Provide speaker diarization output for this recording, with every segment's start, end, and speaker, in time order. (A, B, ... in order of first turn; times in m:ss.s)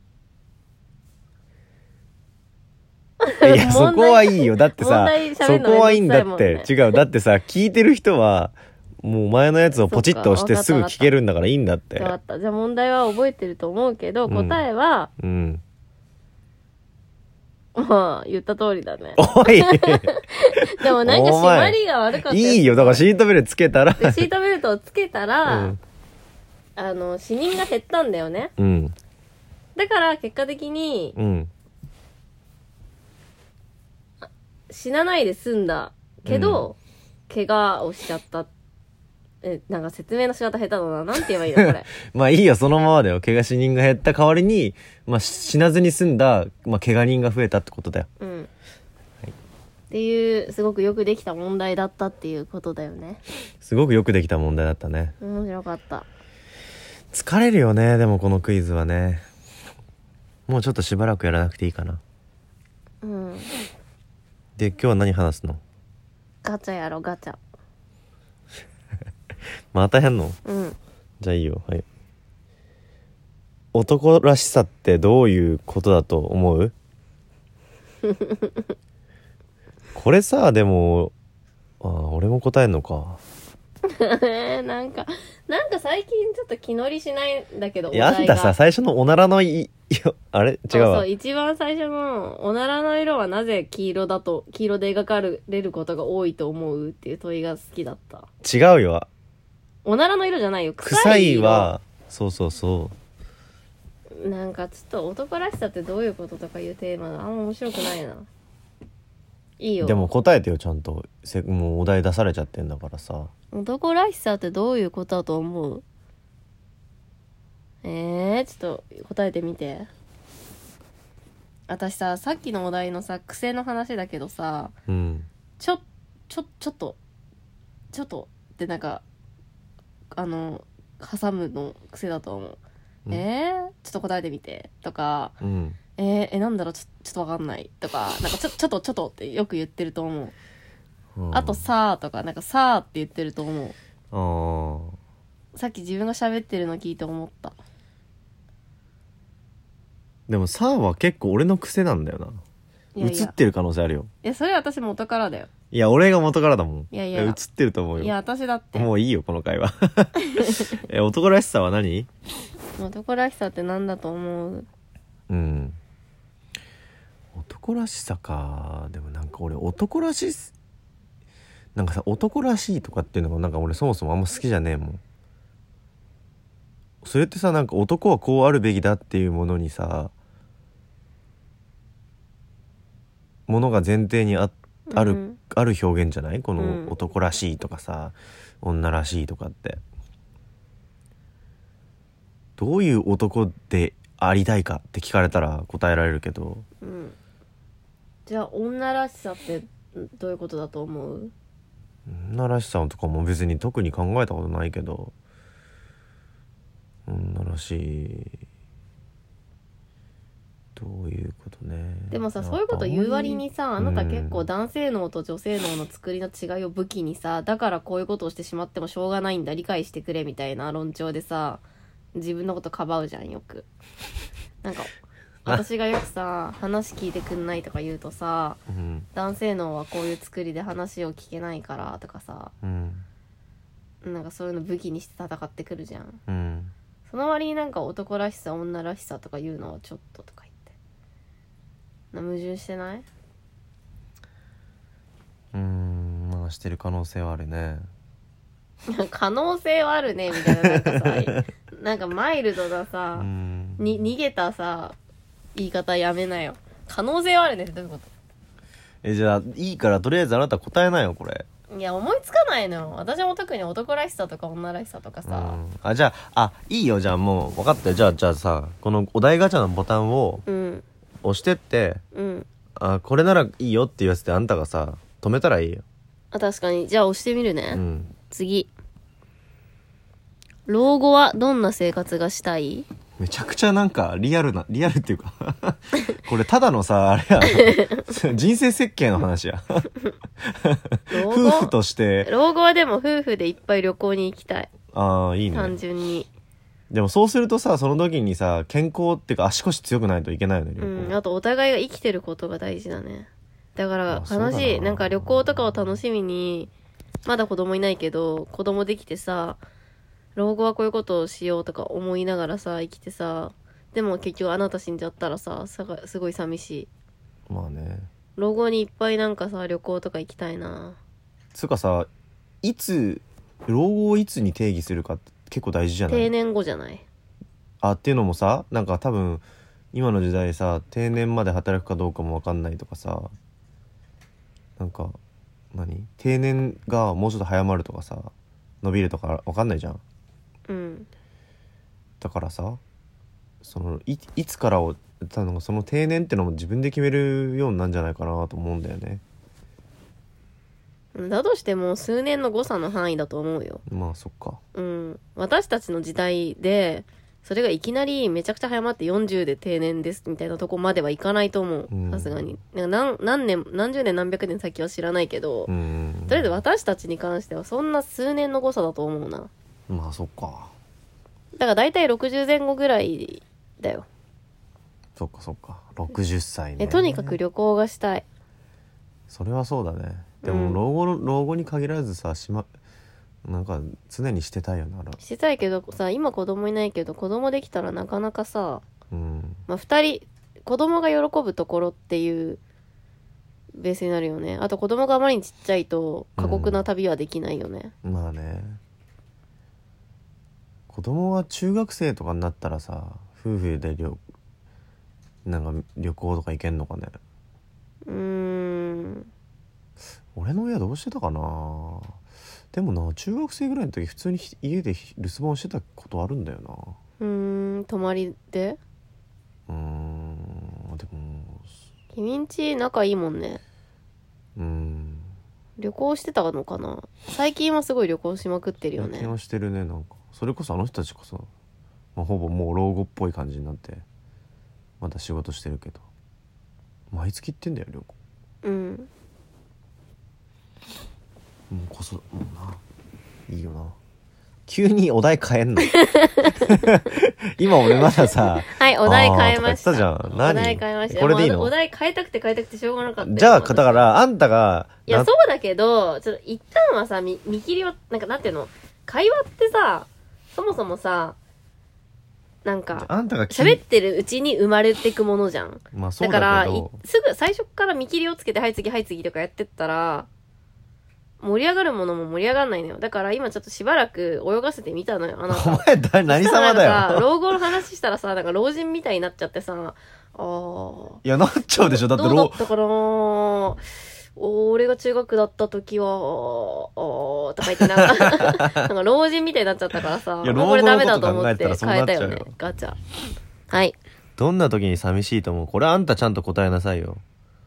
0:03.2-0:06.8 A
0:03.4-0:12.2 B
0:09.7-0:11.1 A
0:12.0-0:15.1 A
0:14.3-0:14.6 B
0:15.2-0:15.6 B
0:17.8-0:23.0 A
0:19.2-0:24.2 B
0:24.0-0:25.8 A
0:25.5-0:25.8 B
0:26.8-0:28.5 A
0:28.6-0:29.0 B
0:29.8-0:31.2 A
0:31.2-0:31.5 B
0:34.2-0:36.8 A
0:36.3-0:36.7 B
0:37.3-0:38.5 A
0:39.4-0:41.9 A
0:41.6-0:48.1 B
0:48.2-0:48.5 A
0:49.9-0:53.2 A
0:53.6-0:55.2 B
0:55.2-0:56.1 A
0:57.1-0:59.3 B
1:00.5-1:02.0 B
1:03.0-1:03.5 A
1:04.6-1:05.6 B
1:06.4-1:07.4 A
1:09.7-1:10.4 B
1:10.4-1:10.8 A
1:11.2-1:11.8 B
1:13.7-1:16.7 B
1:18.0-1:18.7 A
1:20.0-1:21.1 B
1:21.8-1:23.2 B
1:23.9-1:28.6 A
1:27.9-1:31.1 B
1:30.7-1:38.3 A
1:38.4-1:39.1 B
1:39.8-1:41.7 A
1:40.8-1:43.0 B
1:44.2-1:48.3 A
1:49.6-1:50.1 A
1:49.8-1:53.3 B
1:53.5-1:55.8 A
1:57.8-1:59.9 A
2:01.7-2:04.7 A
2:04.9-2:05.3 B
2:05.6-2:07.0 A
2:07.9-2:09.0 A
2:10.1-2:15.4 A
2:15.4-2:15.8 B
2:16.0-2:20.3 A
2:21.2-2:21.6 B
2:21.3-2:23.8 A
2:24.1-2:25.0 B
2:25.6-2:27.6 A
2:30.3-2:32.4 B
2:33.0-2:33.4 A
2:33.0-2:34.1 B
2:34.2-2:35.5 A
2:35.7-2:38.1 B
2:36.9-2:37.4 A
2:38.0-2:38.9 A
2:38.8-2:42.1 B
2:40.2-2:40.5 A
2:42.8-2:44.7 A
2:45.3-2:45.8 B
2:47.4-2:50.5 B
2:51.8-2:55.0 B
2:57.0-3:00.1 B
3:03.5-3:09.8 B
3:04.9-3:05.4 A
3:06.6-3:06.9 A
3:12.6-3:16.6 B
3:16.8-3:17.2 A
3:18.3-3:21.3 A
3:22.1-3:25.1 B
3:27.1-3:28.4 B
3:30.8-3:34.5 B
3:32.1-3:41.6 A
3:42.2-3:43.7 A
3:44.6-3:44.9 A
3:45.4-3:48.6 A
3:48.7-3:49.1 B
3:49.2-3:52.5 A
3:52.6-3:53.0 B
3:54.0-3:56.2 A
3:56.3-3:56.7 B
3:57.1-4:00.7 A
4:02.1-4:03.1 A
4:05.5-4:07.9 B
4:08.9-4:15.0 A
4:10.4-4:11.4 B
4:13.2-4:14.1 B
4:15.6-4:18.1 A
4:19.0-4:21.5 B
4:21.7-4:25.6 A
4:25.3-4:30.4 B
4:30.5-4:30.8 A
4:31.2-4:32.0 B
4:32.1-4:32.5 A
4:32.8-4:35.8 B
4:36.3-4:38.7 A
4:37.7-4:38.1 B
4:40.7-4:42.9 A
4:43.2-4:49.9 B
4:47.4-4:48.1 A
4:50.4-4:52.3 B
4:51.1-4:51.7 A
4:52.2-4:54.7 A
4:54.9-4:55.8 B
4:55.5-4:56.3 A
4:56.9-5:01.2 B
5:00.8-5:06.7 A
5:04.1-5:05.6 B
5:07.3-5:09.6 A
5:10.4-5:16.9 A
5:17.5-5:18.1 B
5:18.4-5:21.0 A
5:21.5-5:22.1 B
5:22.6-5:26.3 B
5:26.1-5:27.0 A
5:27.8-5:33.3 B
5:34.8-5:35.2 B
5:35.7-5:40.0 B
5:40.7-5:41.1 A
5:42.2-5:42.8 B
5:43.6-5:49.2 B
5:51.2-5:53.8 A
5:53.9-5:54.6 B
5:54.8-6:05.7 A
6:01.9-6:02.6 B
6:05.7-6:06.4 B
6:06.3-6:09.5 A
6:09.9-6:10.7 B
6:11.6-6:14.1 A
6:15.2-6:17.4 B
6:16.8-6:18.2 A
6:19.3-6:22.7 B
6:20.4-6:20.8 A
6:23.4-6:25.2 B
6:25.2-6:28.8 A
6:29.1-6:29.6 B
6:29.7-6:32.6 A
6:33.8-6:37.9 A
6:36.4-6:36.8 B
6:38.0-6:38.8 B
6:40.9-6:44.2 B
6:45.5-6:47.2 B
6:48.1-6:49.3 A
6:50.3-6:52.2 B
6:52.7-6:57.0 B
6:57.2-6:58.8 A
6:59.7-7:01.7 B
7:02.1-7:03.6 A
7:04.6-7:05.3 B
7:05.8-7:09.3 A
7:09.0-7:11.5 B
7:12.2-7:14.0 B
7:15.0-7:16.0 B
7:17.1-7:18.2 B
7:18.6-7:19.1 A
7:21.7-7:22.8 B
7:23.5-7:24.0 B
7:24.7-7:31.7 B
7:25.9-7:26.7 A
7:27.9-7:34.1 A
7:33.2-7:35.3 B
7:35.1-7:41.4 A
7:42.6-7:50.3 A
7:42.9-7:43.8 B
7:45.9-7:47.0 B
7:51.4-8:01.2 A
7:55.5-7:57.3 B
8:01.2-8:02.6 B
8:01.8-8:03.8 A
8:04.4-8:13.0 A
8:07.8-8:08.4 B
8:10.4-8:12.5 B
8:13.7-8:14.0 A
8:14.4-8:17.2 B